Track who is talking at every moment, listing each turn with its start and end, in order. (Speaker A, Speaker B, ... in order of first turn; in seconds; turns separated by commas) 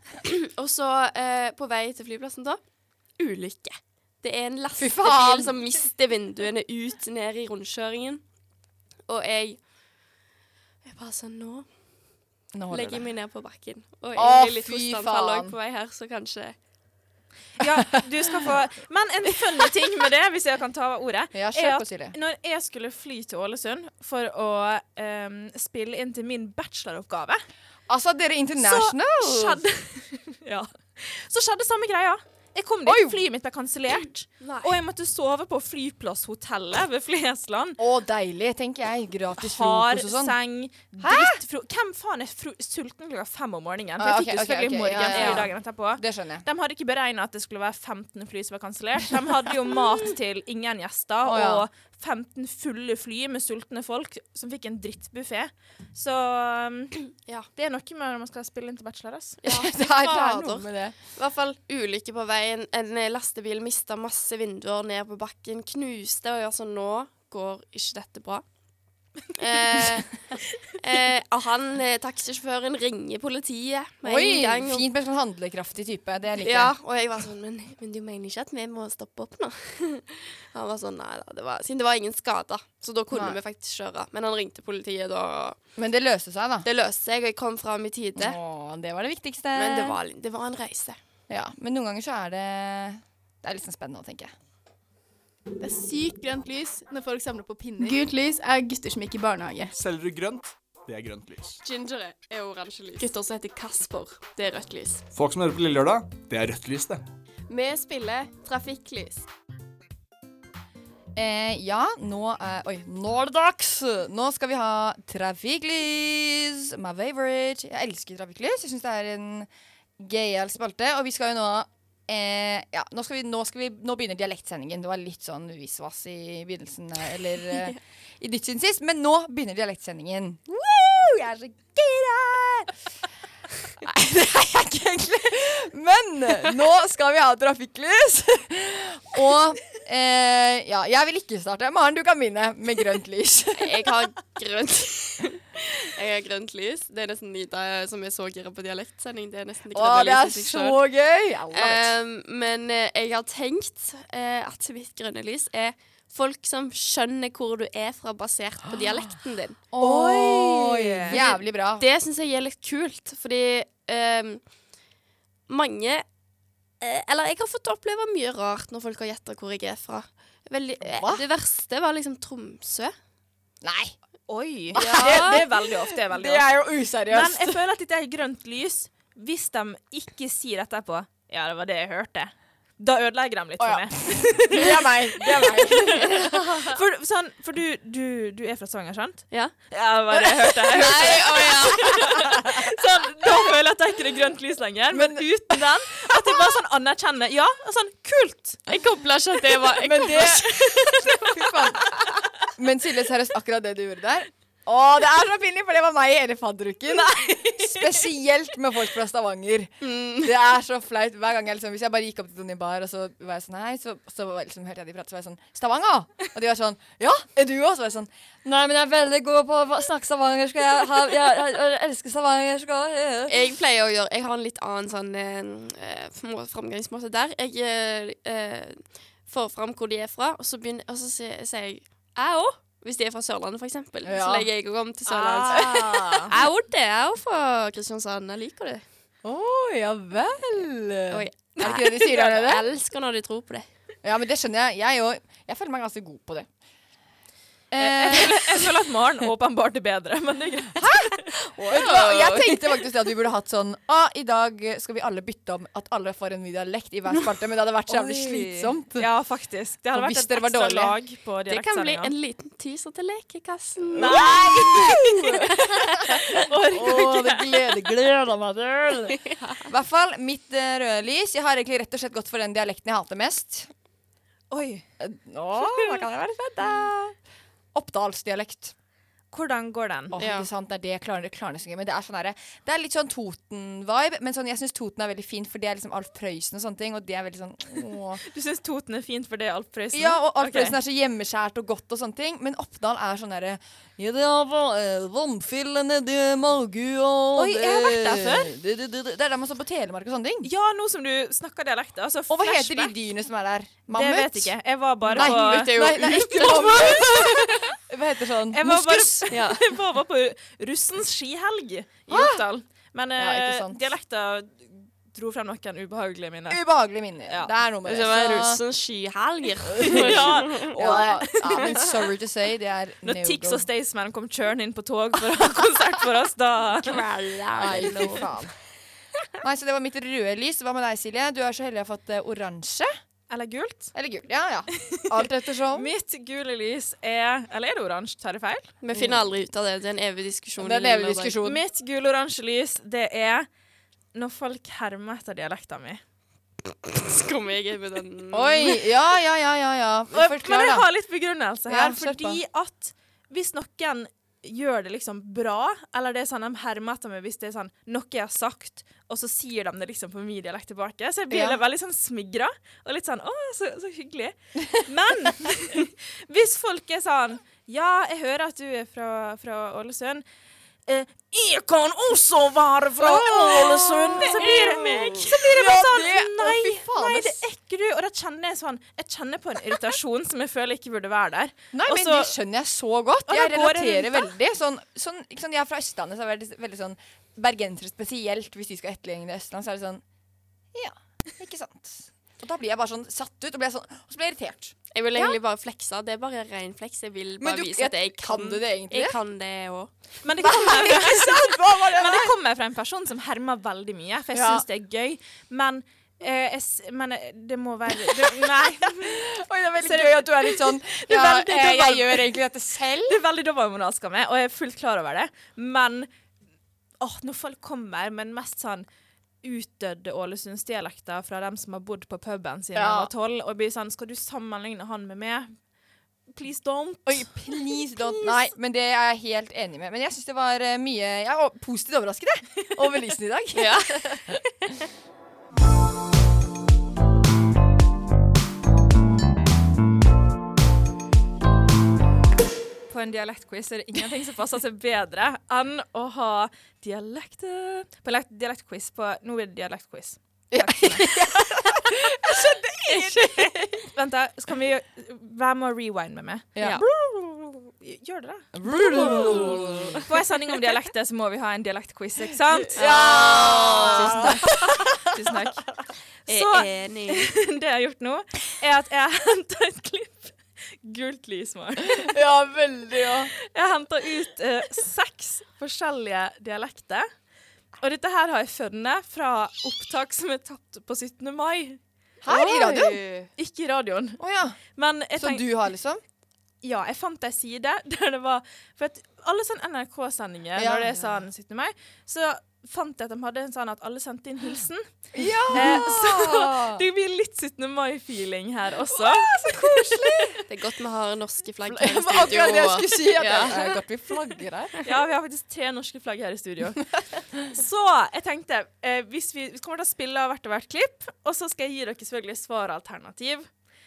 Speaker A: 0.2-2.6, Speaker A: 3.2-8.2, Speaker B: 4.8-5.5, Speaker A: 9.1-9.6, Speaker A: 10.9-11.7, Speaker B: 12.5-13.1, Speaker A: 12.7-16.6, Speaker B: 14.2-15.5, Speaker C: 17.6-27.4, Speaker B: 21.3-22.2, Speaker B: 27.9-29.6, Speaker C: 28.6-37.8, Speaker B: 32.9-33.2, Speaker A: 34.4-34.7, Speaker B: 37.8-40.4, Speaker C: 39.4-59.4, Speaker B: 41.0-41.4, Speaker B: 44.0-46.5, Speaker A: 45.1-45.5, Speaker B: 51.2-51.7, Speaker A: 59.4-68.4, Speaker B: 59.5-61.0, Speaker A: 69.3-70.1, Speaker A: 70.8-74.9, Speaker B: 74.0-76.7, Speaker A: 76.4-85.6, Speaker B: 83.1-83.4, Speaker B: 85.8-86.7, Speaker A: 86.6-88.4, Speaker B: 88.2-90.0, Speaker A: 89.5-91.0, Speaker B: 91.3-94.3, Speaker D: 95.6-96.0, Speaker A: 95.9-98.0, Speaker D: 97.8-99.7, Speaker E: 99.7-101.6, Speaker A: 101.6-105.0, Speaker E: 105.1-107.0, Speaker A: 107.5-109.2, Speaker B: 111.2-132.7, Speaker B: 133.8-144.0, Speaker A: 143.6-150.8, Speaker B: 149.7-151.9, Speaker A: 151.5-159.6, Speaker B: 159.7-161.8, Speaker C: 159.8-161.2, Speaker A: 161.1-164.4, Speaker A: 165.5-166.1, Speaker A: 166.8-172.9, Speaker B: 170.8-171.2, Speaker B: 173.6-173.9, Speaker C: 174.3-176.5, Speaker B: 174.7-177.6, Speaker A: 174.8-175.4, Speaker C: 177.1-198.6, Speaker B: 183.6-186.8, Speaker B: 190.1-192.7, Speaker A: 190.7-192.1, Speaker B: 194.9-196.2, Speaker A: 198.7-201.0, Speaker B: 199.7-202.0, Speaker B: 202.5-223.3, Speaker A: 209.8-210.3, Speaker A: 223.3-238.8, Speaker B: 234.1-234.5, Speaker B: 235.1-236.3, Speaker C: 235.6-236.3, Speaker B: 239.2-242.6, Speaker A: 241.1-243.7, Speaker B: 244.0-246.5, Speaker B: 247.7-248.8, Speaker C: 247.8-251.3, Speaker B: 250.8-259.1, Speaker A: 251.7-252.6, Speaker C: 257.9-262.1, Speaker B: 259.9-261.0, Speaker A: 261.5-264.8, Speaker B: 263.9-273.7, Speaker C: 264.0-265.4, Speaker A: 265.4-266.0, Speaker C: 266.3-267.7, Speaker C: 274.5-274.8, Speaker B: 275.0-277.2, Speaker B: 277.7-278.7, Speaker C: 279.3-280.1, Speaker B: 280.1-288.2, Speaker A: 280.2-280.5, Speaker C: 288.3-290.8, Speaker B: 289.9-300.5, Speaker C: 297.4-298.5, Speaker C: 300.4-302.9, Speaker B: 302.3-304.5, Speaker C: 303.9-307.1, Speaker B: 305.1-309.3, Speaker A: 305.1-307.3, Speaker C: 308.5-316.6, Speaker A: 309.3-309.6, Speaker B: 312.1-312.4, Speaker B: 313.2-313.9, Speaker B: 316.5-318.6, Speaker A: 317.9-321.0, Speaker B: 319.8-323.7, Speaker C: 319.8-321.9, Speaker C: 323.0-327.0, Speaker A: 326.8-328.3, Speaker B: 327.6-328.5, Speaker B: 329.4-332.9, Speaker C: 333.3-333.9, Speaker B: 333.9-335.9, Speaker C: 334.9-338.7, Speaker A: 338.8-341.4, Speaker B: 338.9-339.3, Speaker B: 340.6-341.6, Speaker C: 341.4-343.5, Speaker C: 344.1-346.0, Speaker A: 346.8-348.8, Speaker B: 348.3-350.9, Speaker C: 350.1-370.2, Speaker B: 351.7-352.4, Speaker B: 361.3-361.6, Speaker C: 370.9-382.4, Speaker B: 373.0-377.4, Speaker A: 374.2-375.3, Speaker B: 381.7-390.0, Speaker C: 383.3-384.3, Speaker B: 390.7-395.4, Speaker A: 394.9-399.9, Speaker B: 397.4-399.2, Speaker C: 400.2-412.3, Speaker B: 400.4-402.3, Speaker B: 404.3-404.6, Speaker B: 408.1-413.2, Speaker C: 413.1-416.1, Speaker C: 417.0-418.9, Speaker C: 419.4-425.5, Speaker B: 422.8-423.1, Speaker C: 426.3-428.4, Speaker B: 427.1-433.8, Speaker A: 433.6-434.1, Speaker C: 442.9-451.7, Speaker B: 450.5-453.8, Speaker C: 452.2-456.8, Speaker B: 456.6-457.5, Speaker C: 457.8-465.7, Speaker B: 458.5-460.1, Speaker A: 459.0-460.0, Speaker B: 462.7-465.4, Speaker A: 462.8-464.3, Speaker A: 466.3-467.3, Speaker C: 466.3-472.2, Speaker B: 471.9-473.3, Speaker C: 473.4-477.1, Speaker C: 477.8-484.2, Speaker B: 482.2-483.3, Speaker B: 484.2-484.6, Speaker C: 484.8-485.4, Speaker B: 485.2-486.0, Speaker C: 486.6-494.9, Speaker B: 490.6-491.2, Speaker B: 495.1-496.8, Speaker C: 495.5-500.3, Speaker B: 498.9-500.4, Speaker A: 500.5-503.8, Speaker B: 501.7-504.7, Speaker C: 504.8-513.5